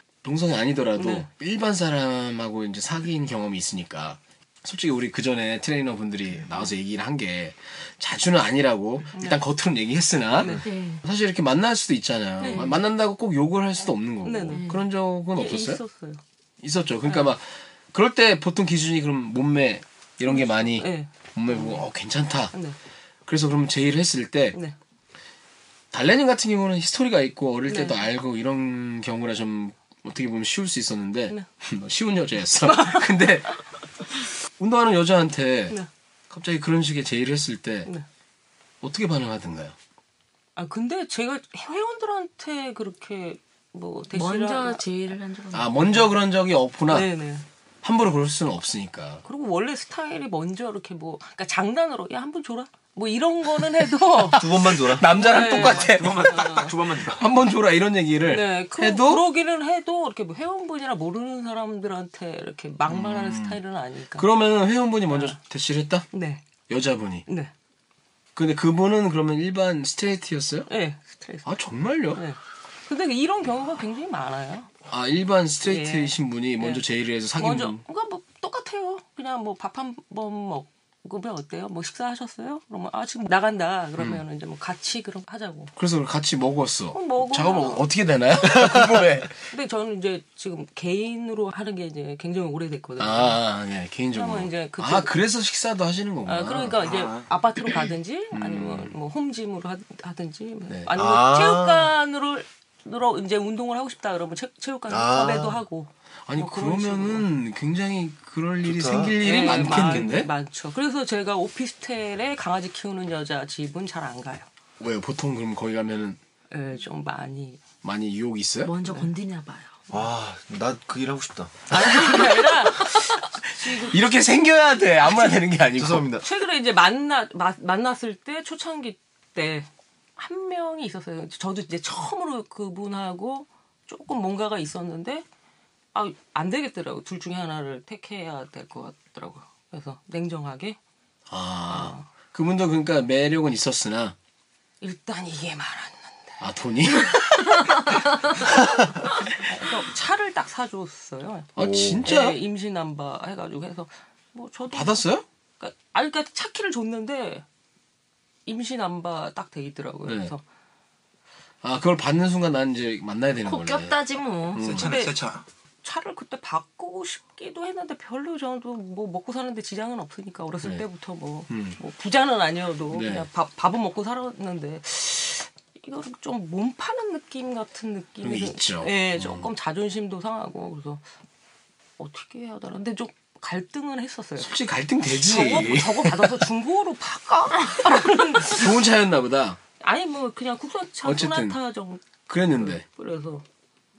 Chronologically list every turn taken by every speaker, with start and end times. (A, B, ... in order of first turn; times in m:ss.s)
0:00.2-0:15.8 A
0:01.0-0:01.3 B
0:09.2-0:09.4 B
0:10.6-0:11.0 C
0:12.4-0:12.7 C
0:12.4-0:12.7 B
0:14.2-0:14.7 B
0:14.5-0:14.8 C
0:15.3-0:16.2 B
0:16.6-0:22.6 A
0:17.1-0:17.3 B
0:20.2-0:21.8 B
0:23.3-0:24.6 A
0:25.9-0:33.5 A
0:27.7-0:28.0 B
0:32.6-0:33.3 B
0:34.6-0:35.8 A
0:36.3-0:37.9 A
0:38.8-0:39.8 A
0:40.6-0:44.8 B
0:44.1-0:46.0 C
0:45.5-0:47.1 A
0:46.9-0:47.4 B
0:47.8-0:49.2 A
0:49.2-0:56.8 B
0:54.3-0:55.2 D
0:54.9-0:56.4 A
0:55.3-0:57.2 E
0:57.1-0:59.2 A
0:58.3-1:04.3 B
1:02.9-1:03.6 A
1:04.2-1:06.1 A
1:05.1-1:05.4 B
1:06.1-1:06.4 B
1:06.7-1:07.2 A
1:08.4-1:10.7 A
1:10.7-1:11.5 B
1:11.4-1:12.2 A
1:12.1-1:14.7 B
1:14.9-1:17.8 A
1:15.7-1:16.8 B
1:17.4-1:25.7 B
1:25.8-1:29.3 A
1:26.9-1:27.8 B
1:29.5-1:33.4 B
1:33.0-1:36.8 A
1:34.1-1:35.1 B
1:36.3-1:47.3 B
1:36.8-1:37.3 E
1:38.3-1:38.9 A
1:41.0-1:41.9 D
1:44.9-1:45.6 D
1:46.3-1:50.3 A
1:48.6-1:49.2 D
1:49.2-1:54.5 B
1:49.7-1:50.0 D
1:54.8-1:56.2 A
1:56.5-1:57.6 B
1:57.8-1:58.7 A
1:58.6-1:59.7 C
1:59.9-2:02.5 D
2:01.7-2:04.0 B
2:03.8-2:06.1 A
2:05.7-2:06.2 D
2:06.2-2:15.2 B
2:15.9-2:20.8 B
2:21.3-2:24.2 A
2:21.7-2:22.1 B
2:24.8-2:26.5 B
2:26.4-2:28.6 A
2:29.3-2:35.0 B
2:31.6-2:32.4 A
2:31.6-2:32.0 D
2:34.7-2:35.2 A
2:35.6-2:37.4 B
2:38.5-2:40.4 B
2:40.1-2:40.3 A
2:41.6-2:44.0 A
2:43.4-2:44.7 C
2:44.6-2:45.0 A
2:44.6-2:45.4 E
2:44.8-2:45.2 B
2:45.8-3:01.0 B
2:51.5-2:51.8 A
2:52.9-2:53.3 A
2:58.2-2:59.5 A
3:02.0-3:04.5 B
3:04.4-3:06.4 A
3:05.2-3:08.7 B
3:08.4-3:09.6 A
3:09.8-3:13.4 B
3:11.0-3:11.6 A
3:12.3-3:12.8 A